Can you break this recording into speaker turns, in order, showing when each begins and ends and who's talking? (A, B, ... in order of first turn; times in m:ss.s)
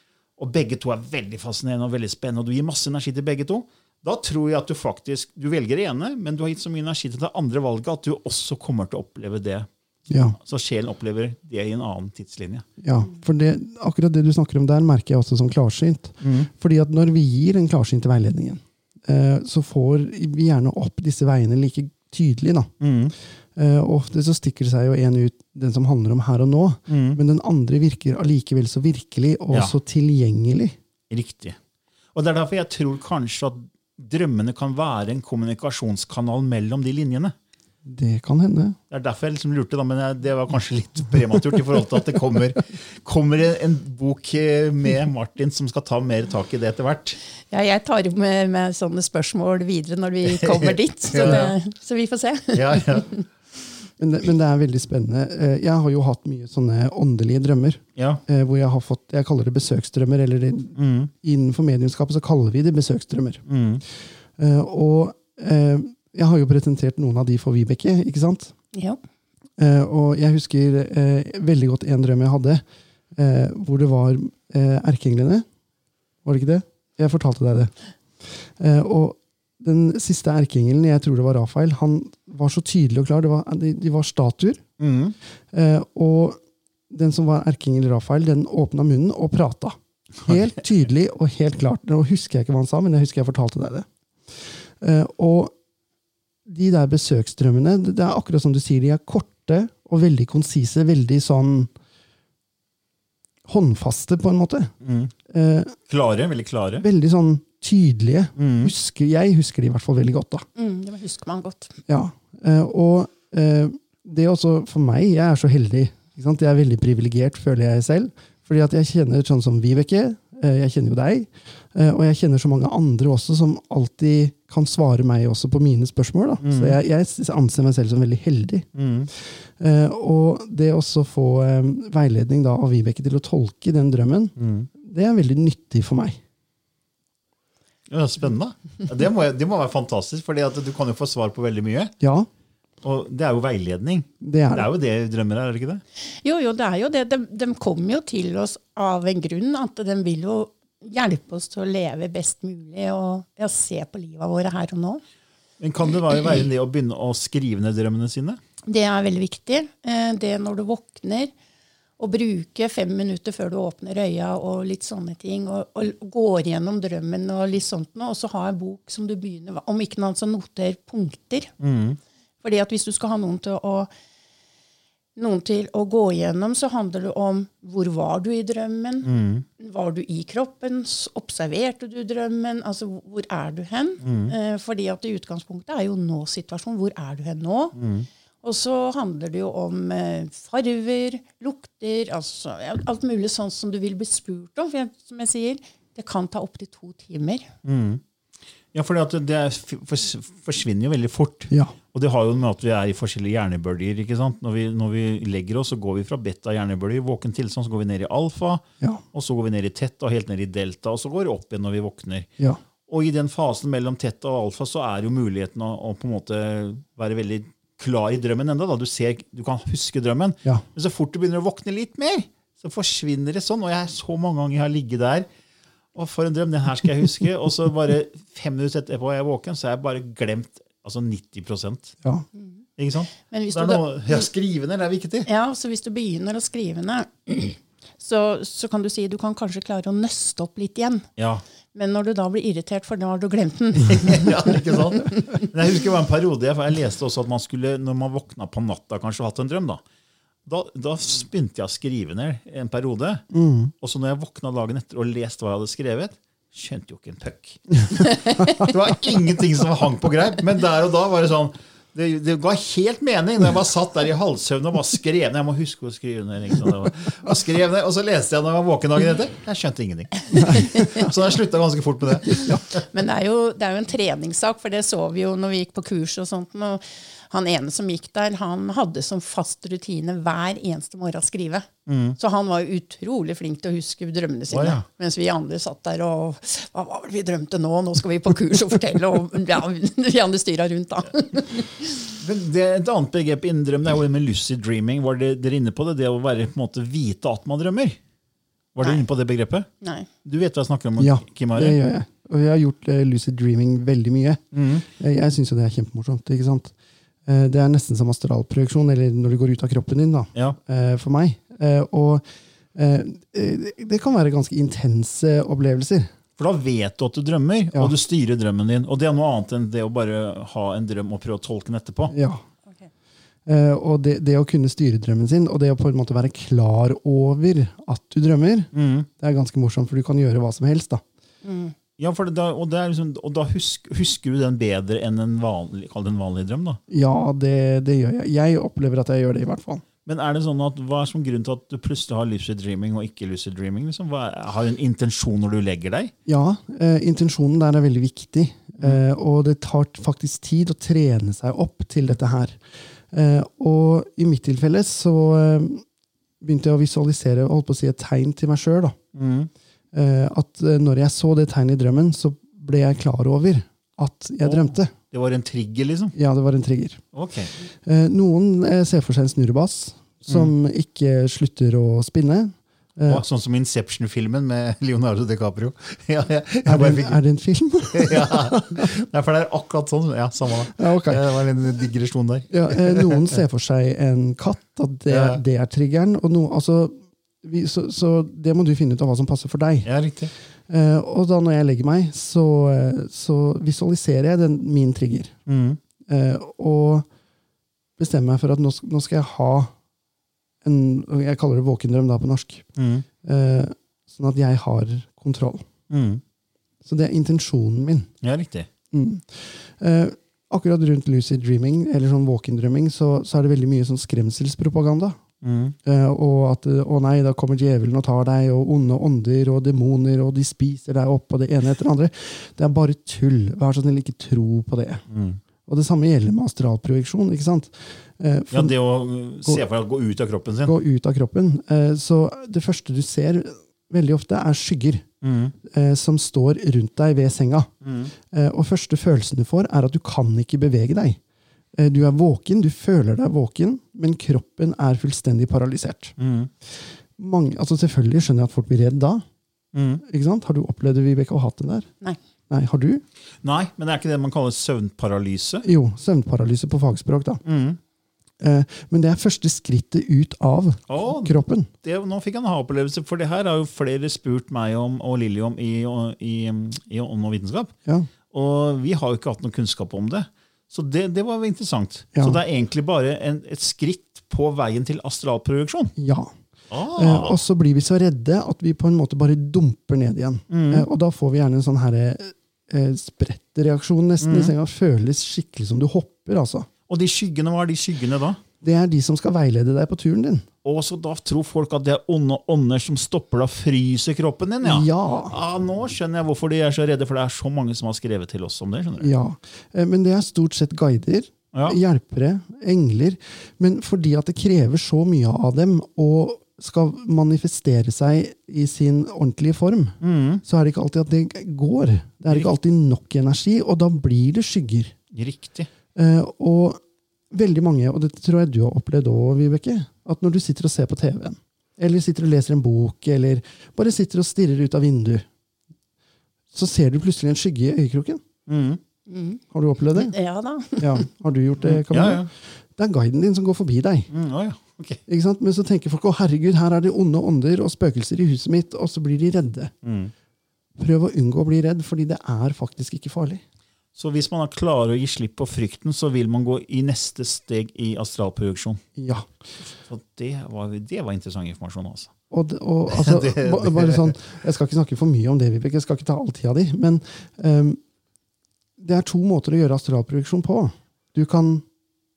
0:00.4-0:09.7 A
0:10.1-0:10.4 B
0:10.2-0:12.7 A
0:12.8-0:22.7 B
0:16.2-0:16.5 A
0:22.8-0:23.1 A
0:23.6-0:30.8 B
0:26.9-0:27.2 A
0:29.5-0:29.8 A
0:31.1-0:31.6 A
0:32.2-0:37.4 A
0:37.8-0:38.8 B
0:38.9-0:47.2 A
0:47.5-0:53.2 C
0:50.3-0:51.5 A
0:52.5-0:53.1 A
0:54.0-1:03.4 B
0:58.0-0:58.2 A
1:00.8-1:01.1 A
1:03.5-1:03.8 A
1:04.4-1:08.5 B
1:08.7-1:09.0 C
1:09.6-1:12.6 B
1:13.2-1:15.4 B
1:16.2-1:17.7 B
1:18.3-1:24.6 B
1:24.8-1:25.2 A
1:25.5-1:26.4 B
1:26.9-1:35.5 B
1:36.5-1:41.7 B
1:43.5-1:44.7 B
1:44.8-1:45.1 A
1:45.3-1:45.8 B
1:45.9-1:46.8 A
1:46.8-1:50.5 B
1:48.4-1:48.7 A
1:50.6-1:51.8 C
1:51.9-2:08.7 B
2:06.4-2:06.8 A
2:08.8-2:09.1 A
2:09.6-2:16.2 B
2:14.4-2:14.7 A
2:17.9-2:21.9 A
2:22.0-2:22.3 B
2:22.8-2:25.8 A
2:24.2-2:24.7 B
2:26.2-2:35.0 C
2:35.6-2:38.4 A
2:38.7-2:41.3 C
2:42.0-2:51.5 C
2:51.6-2:52.0 A
2:52.4-2:53.9 C
2:55.2-3:07.8 C
2:59.0-2:59.4 A
3:04.0-3:04.4 A
3:07.8-3:08.1 A
3:08.4-3:17.5 C
3:17.6-3:18.0 A
3:18.7-3:32.3 A
3:32.9-3:45.3 A
3:46.0-3:52.0 A
3:52.8-3:55.3 A
3:53.2-3:54.2 C
3:55.3-4:01.1 C
4:01.2-4:01.4 A
4:01.7-4:04.6 C
4:03.9-4:09.8 A
4:10.5-4:13.2 A
4:13.3-4:13.7 B
4:13.8-4:32.8 A
4:30.6-4:30.9 C
4:32.9-4:41.7 C
4:41.9-4:42.2 A
4:42.2-4:52.1 C
4:44.5-4:44.8 A
4:52.2-4:58.0 A
4:58.8-4:59.7 A
4:59.8-5:00.1 C
5:00.2-5:01.8 A
5:01.0-5:06.7 B
5:04.5-5:04.9 A
5:07.3-5:12.2 B
5:12.8-5:16.1 B
5:16.4-5:22.2 A
5:22.1-5:22.4 B
5:23.5-5:31.0 B
5:28.7-5:29.1 A
5:31.4-5:31.8 C
5:32.0-5:36.8 A
5:36.9-5:39.8 B
5:40.0-5:46.1 A
5:46.3-5:55.8 B
5:56.4-5:59.0 B
5:59.2-5:59.5 A
5:59.9-6:04.9 B
6:04.4-6:06.2 A
6:06.2-6:07.0 B
6:07.1-6:07.5 A
6:07.8-6:13.2 B
6:10.3-6:10.5 A
6:13.1-6:17.2 A
6:16.6-6:18.9 B
6:17.9-6:23.3 A
6:20.7-6:21.2 B
6:22.5-6:29.9 B
6:25.1-6:25.4 A
6:29.8-6:30.3 A
6:30.7-6:35.4 B
6:35.5-6:35.8 A
6:36.1-6:37.1 B
6:38.0-6:39.7 B
6:40.6-6:42.7 B
6:42.8-6:43.1 A
6:43.2-6:45.7 B
6:45.9-6:46.2 A
6:46.8-6:48.1 B
6:48.2-6:48.7 A
6:48.9-6:55.2 B
6:55.4-6:55.8 A
6:55.8-7:05.0 B
7:05.1-7:05.4 A
7:05.7-7:08.8 B
7:08.5-7:10.8 A
7:10.6-7:15.0 B
7:15.2-7:15.6 A
7:15.6-7:17.7 B
7:17.8-7:18.1 A
7:18.2-7:21.2 B
7:21.8-7:26.2 B
7:26.2-7:26.5 A
7:27.2-7:29.2 B
7:29.7-7:30.0 A
7:30.0-7:31.9 B
7:32.5-7:33.0 B
7:33.4-7:35.7 A
7:35.6-7:37.4 B
7:37.4-7:37.8 A
7:38.4-7:41.7 B
7:40.9-7:47.7 A
7:48.3-7:55.9 A
7:52.1-7:52.4 B
7:56.0-7:56.3 B
7:56.7-7:57.4 A
7:57.0-8:06.7 B
8:00.5-8:00.9 A
8:04.2-8:04.5 A
8:06.9-8:08.4 A
8:08.6-8:10.5 B
8:10.6-8:19.1 A
8:14.6-8:15.4 B
8:19.0-8:34.9 B
8:21.5-8:21.8 A
8:30.0-8:30.4 A
8:35.1-8:35.7 A
8:36.0-8:36.8 B
8:37.3-8:45.3 B
8:46.5-8:48.2 B
8:48.5-8:48.8 A
8:49.1-8:49.4 C
8:49.5-8:50.2 B
8:49.9-8:51.0 C
8:50.8-8:54.1 B
8:51.6-8:52.3 A
8:54.1-8:55.0 A
8:55.1-8:59.7 B
8:59.8-9:00.1 A
9:00.8-9:03.4 B
9:04.0-9:08.8 A
9:09.0-9:09.3 B
9:09.7-9:12.1 A
9:12.3-9:17.8 B
9:12.9-9:14.2 A
9:18.8-9:21.6 B